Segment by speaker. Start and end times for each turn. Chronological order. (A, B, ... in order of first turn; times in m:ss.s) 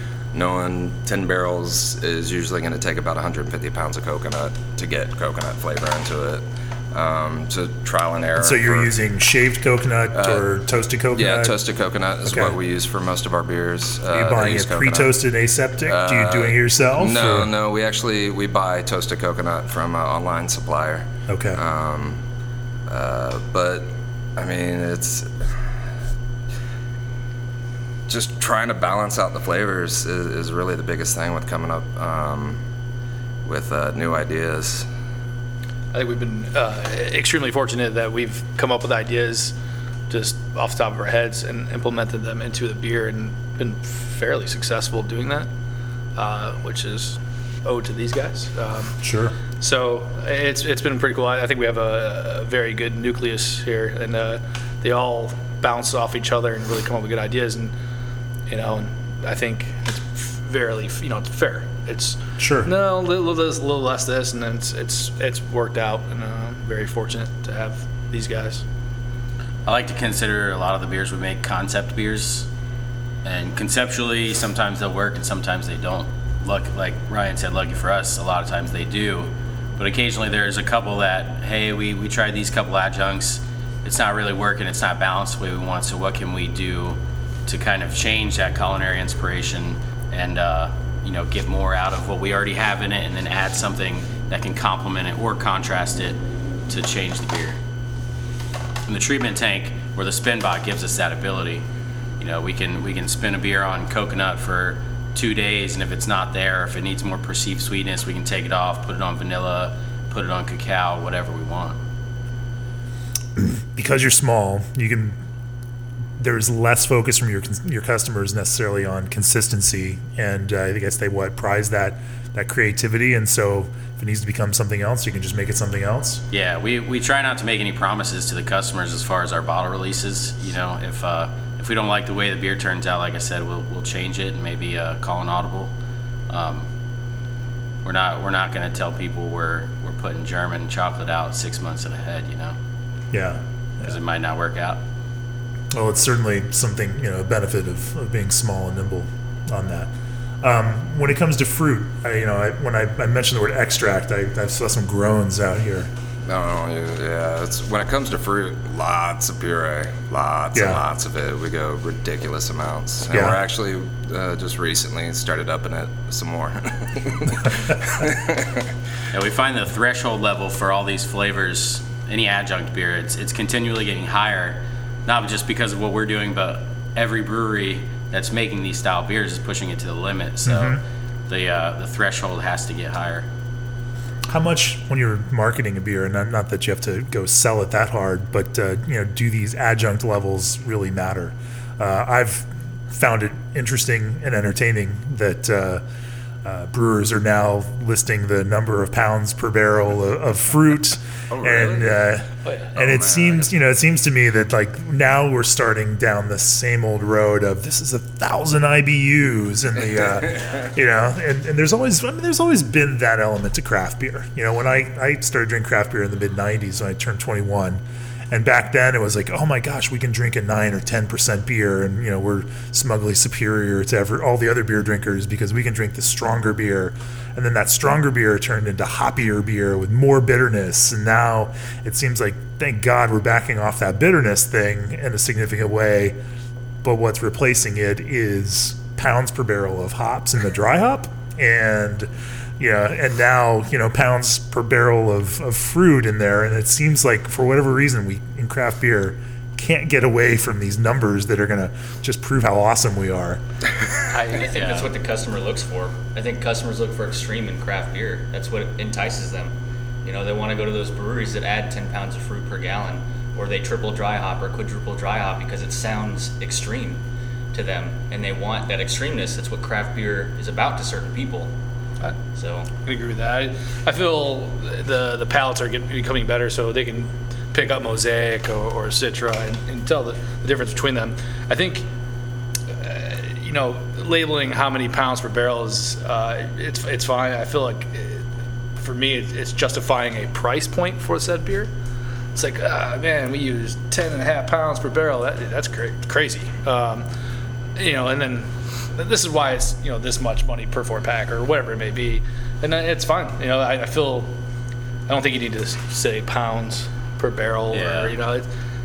0:00.3-0:08.9 A
0:08.4-0:11.5 B
0:10.1-0:10.4 A
0:11.1-0:15.1 A
0:12.2-0:12.5 B
0:14.1-0:17.5 B
0:15.8-0:22.2 A
0:21.3-0:21.6 B
0:22.9-0:25.7 A
0:28.1-0:32.6 A
0:33.4-0:34.9 A
0:35.9-0:39.5 C
0:40.1-0:45.5 C
0:46.1-0:49.0 C
0:49.0-0:49.3 B
0:49.6-0:57.7 C
0:58.5-1:08.6 C
1:02.4-1:02.7 B
1:09.6-1:12.5 D
1:13.2-1:37.6 D
1:38.8-1:41.6 D
1:42.2-1:51.8 D
1:53.4-1:55.2 B
1:56.2-2:06.2 B
2:06.3-2:15.7 D
2:16.3-2:16.7 D
2:17.8-2:22.6 D
2:23.1-2:23.9 B
2:23.8-2:24.8 D
2:25.7-2:35.9 B
2:36.2-2:48.7 A
2:40.5-2:40.8 B
2:43.1-2:43.4 B
2:49.1-3:00.8 D
3:00.4-3:00.8 B
3:01.3-3:03.2 D
3:04.3-3:15.8 B
3:16.4-3:56.2 B
3:21.6-3:21.9 D
3:22.4-3:22.7 C
3:22.7-3:23.4 A
3:56.8-4:02.1 B
4:02.6-4:13.4 B
4:14.1-4:14.5 C
4:14.3-4:19.5 E
4:14.5-4:14.9 D
4:20.0-4:27.0 E
4:27.5-4:31.5 E
4:32.3-4:32.7 E
4:32.8-4:41.8 C
4:42.7-4:48.2 C
4:48.8-4:51.7 C
4:52.3-4:57.0 C
4:57.8-5:04.3 C
5:05.1-5:08.5 C
5:07.7-5:08.1 D